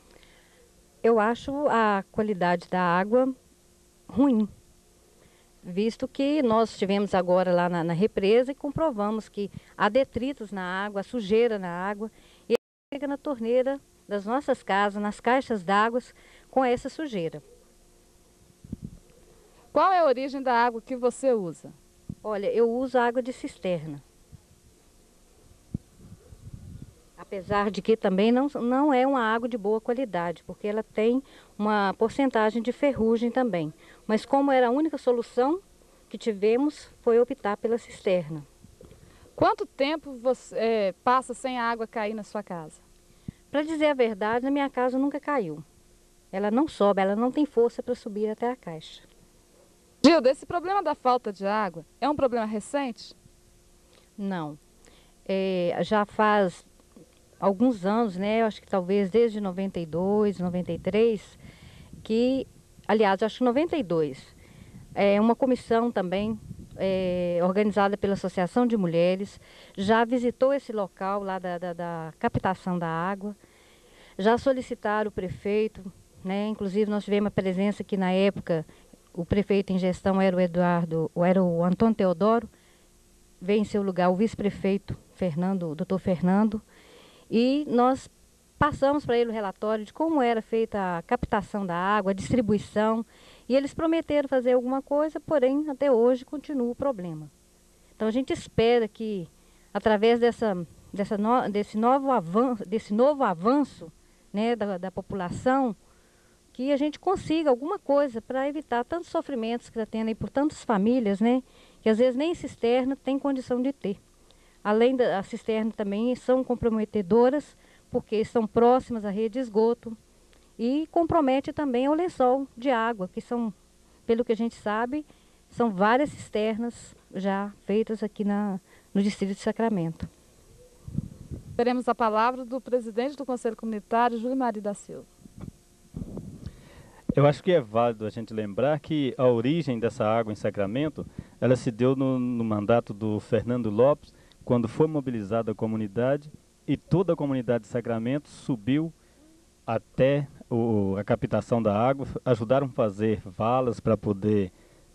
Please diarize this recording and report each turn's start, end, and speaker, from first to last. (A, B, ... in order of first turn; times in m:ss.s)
0:01.0-0:03.4 A
0:04.1-0:04.5 A
0:05.6-0:17.4 A
0:19.7-0:21.8 B
0:22.2-0:24.0 A
0:27.2-0:38.4 A
0:39.4-0:42.8 B
0:43.5-0:45.6 A
0:46.3-0:49.0 A
0:50.0-0:53.2 B
0:54.2-0:54.6 A
0:55.3-0:56.7 A
0:57.4-1:01.4 A
1:02.0-1:04.4 A
1:05.0-1:13.4 A
1:14.2-1:22.5 A
1:23.4-1:26.6 A
1:27.3-1:37.3 A
1:38.0-1:45.8 A
1:46.5-1:54.0 A
1:54.6-2:00.0 A
2:00.6-2:03.5 A
2:04.1-2:10.1 A
2:11.6-2:15.1 B
2:17.2-2:28.9 C
2:29.7-2:34.5 C